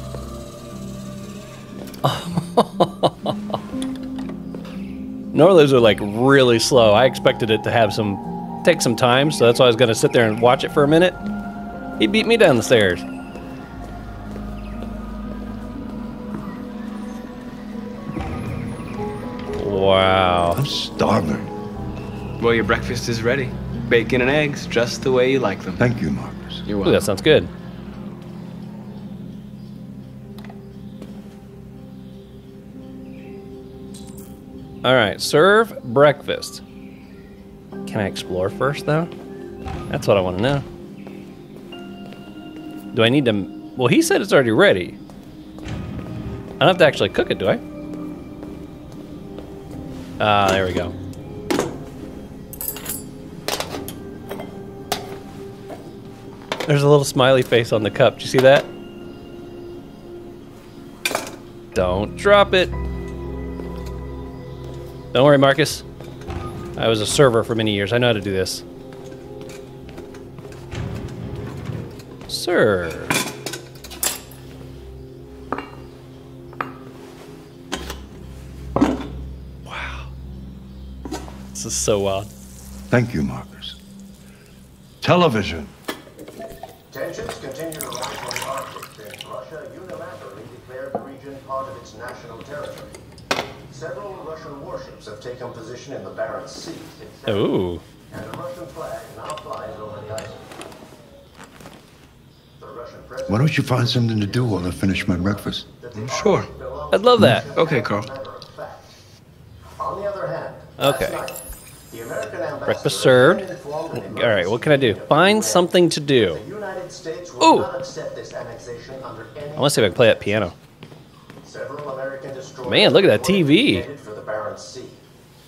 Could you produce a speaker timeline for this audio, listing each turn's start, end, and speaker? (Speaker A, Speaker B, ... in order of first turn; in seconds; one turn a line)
Speaker A: 2.0-3.4
Speaker A: 5.3-11.2
Speaker A: 12.0-13.0
Speaker A: 19.6-20.6
Speaker B: 20.5-21.5
Speaker C: 22.4-25.8
Speaker B: 25.8-26.6
Speaker C: 26.6-27.0
Speaker A: 26.8-27.5
Speaker A: 34.8-36.6
Speaker A: 37.9-39.1
Speaker A: 39.9-40.6
Speaker A: 42.9-45.0
Speaker A: 46.6-47.6
Speaker A: 50.2-50.9
Speaker A: 56.7-58.7
Speaker A: 61.7-62.7
Speaker A: 65.1-65.8
Speaker A: 66.8-68.6
Speaker A: 72.3-73.2
Speaker A: 79.7-80.1
Speaker A: 81.5-82.3
Speaker B: 82.9-83.8
Speaker B: 85.0-85.7
Speaker D: 86.9-92.9
Speaker D: 93.7-97.5
Speaker A: 97.3-97.8
Speaker D: 98.1-100.4
Speaker D: 102.6-109.0
Speaker B: 103.3-105.7
Speaker C: 105.9-106.5
Speaker A: 106.9-107.5
Speaker C: 107.3-108.1
Speaker D: 109.8-111.4
Speaker A: 110.8-111.2
Speaker D: 111.9-120.5
Speaker A: 112.7-116.4
Speaker A: 117.4-117.7
Speaker A: 119.6-120.5
Speaker D: 121.4-125.0
Speaker A: 122.6-123.9